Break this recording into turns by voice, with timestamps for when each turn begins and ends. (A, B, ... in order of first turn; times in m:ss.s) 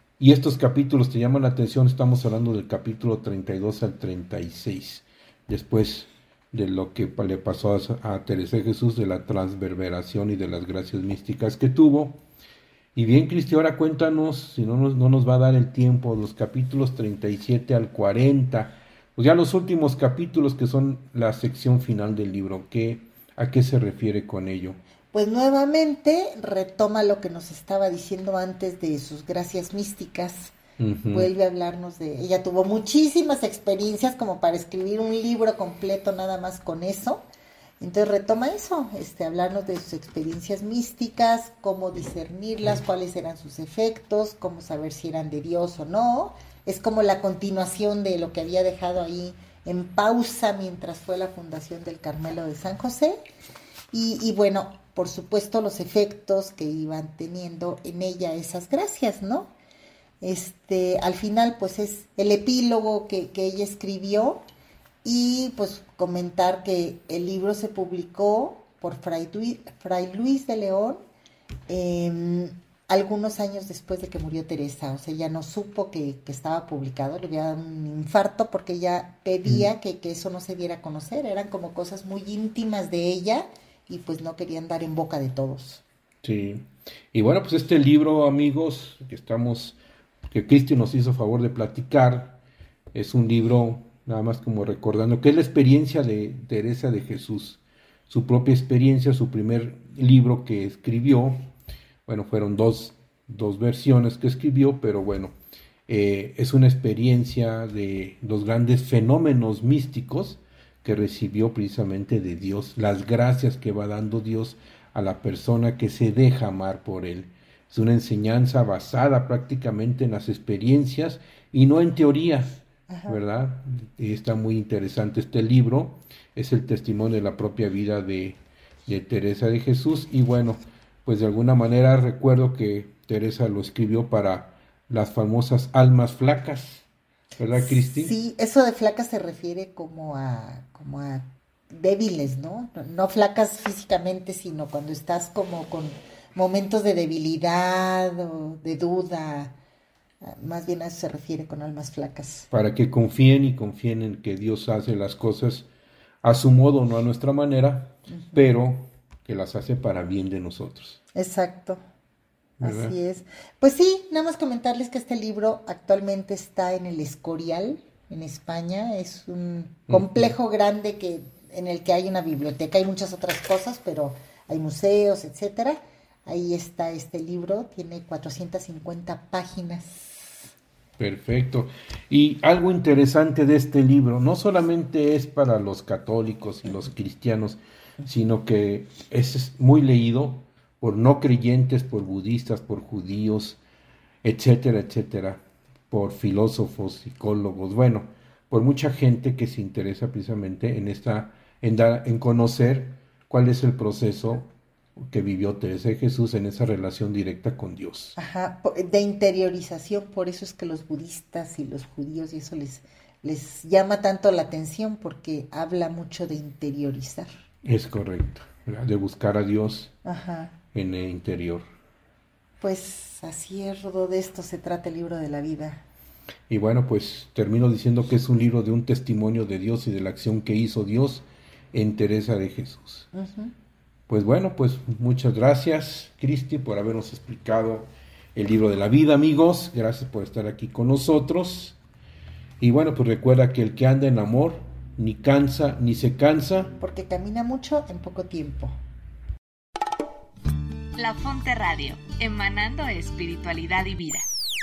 0:00.2-0:12.2 A
0:13.0-0:24.8 A
0:25.1-0:30.5 B
0:30.8-0:31.3 A
0:31.1-0:37.2 B
0:37.8-0:53.2 B
0:53.9-0:59.5 B
1:00.2-1:04.4 B
1:05.0-1:11.0 B
1:11.7-1:25.8 B
1:26.2-1:29.8 A
1:30.3-1:32.4 A
1:32.9-1:41.5 A
1:42.1-1:45.4 A
1:45.9-2:16.8 A
2:02.9-2:03.2 B
2:17.4-2:18.1 A
2:17.5-2:29.6 B
2:30.2-2:32.5 B
2:32.5-2:35.7 A
2:36.2-2:41.0 A
2:38.1-2:38.5 B
2:41.1-2:41.8 B
2:42.6-2:43.0 A
2:42.6-3:00.3 B
2:49.9-2:50.3 A
3:01.0-3:13.6 A
3:14.2-3:24.5 A
3:25.0-3:28.2 A
3:28.2-3:37.3 B
3:37.6-3:39.9 A
3:40.0-3:40.6 B
3:40.7-3:41.7 A
3:42.6-3:45.8 B
3:46.5-3:53.1 A
3:53.1-3:53.5 B
3:54.1-4:01.8 A
4:02.6-4:06.7 A
4:06.8-4:08.8 B
4:11.0-4:14.3 C